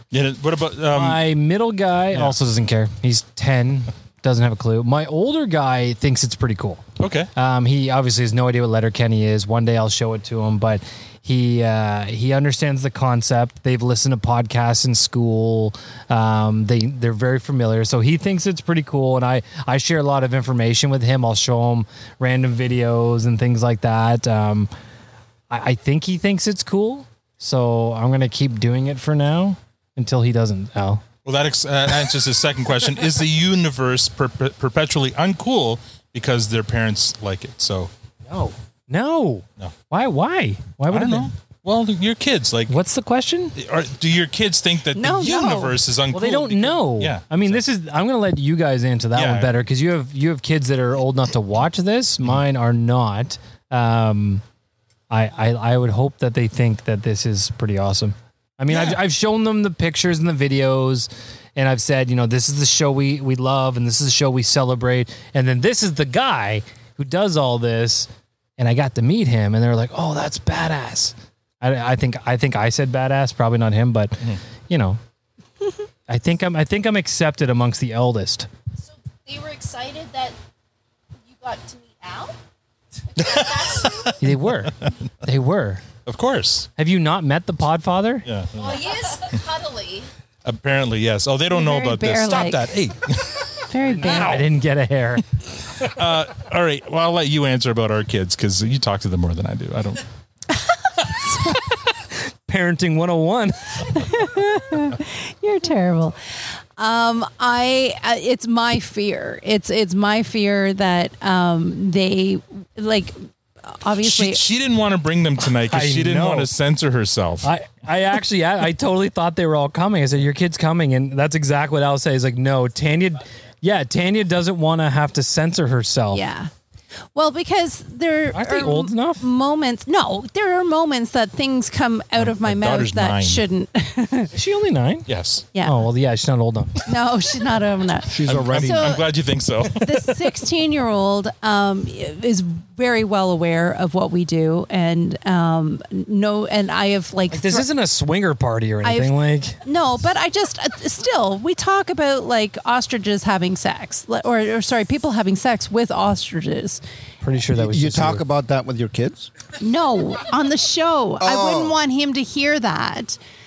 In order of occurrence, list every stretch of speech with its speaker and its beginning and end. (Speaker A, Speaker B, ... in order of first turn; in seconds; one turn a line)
Speaker A: 0.1-1.2
Speaker B: 0.9-6.8
Speaker A: 7.0-7.3
Speaker B: 7.4-24.7
Speaker B: 25.5-31.0
Speaker A: 31.2-37.9
Speaker B: 38.3-41.3
Speaker A: 40.9-42.8
Speaker B: 42.7-43.5
Speaker A: 43.6-47.6
Speaker C: 44.9-45.8
Speaker B: 46.1-54.4
Speaker A: 49.1-49.5
Speaker B: 55.1-75.0
Speaker A: 58.7-59.0
Speaker B: 76.1-78.5
Speaker D: 79.3-80.3
Speaker D: 81.4-82.3
Speaker A: 83.2-84.9
Speaker D: 83.3-83.8
Speaker B: 84.2-85.8
Speaker A: 86.1-86.7
Speaker B: 86.8-88.3
Speaker A: 88.3-88.8
Speaker D: 88.7-90.0
Speaker A: 90.5-94.4
Speaker C: 91.5-92.7
Speaker C: 93.7-94.4
Speaker B: 93.9-95.2
Speaker A: 95.8-100.0
Speaker C: 101.1-101.7
Speaker B: 102.5-103.9
Speaker C: 103.9-106.2
Speaker C: 106.8-113.2
Speaker C: 113.7-114.4
Speaker A: 114.0-117.5
Speaker B: 115.7-116.5
Speaker B: 117.4-126.2
Speaker C: 126.1-126.5
Speaker C: 127.2-134.3
Speaker B: 128.3-129.2
Speaker A: 132.2-133.4
Speaker B: 134.3-135.1
Speaker A: 135.1-135.5
Speaker C: 135.5-135.8
Speaker B: 135.6-136.8
Speaker C: 136.9-139.1
Speaker E: 138.1-139.0
Speaker A: 138.3-139.9
Speaker C: 139.8-147.7
Speaker B: 147.3-149.6
Speaker C: 148.8-156.8
Speaker B: 157.2-158.2
Speaker E: 157.6-159.3
Speaker C: 159.6-163.2
Speaker E: 161.2-161.8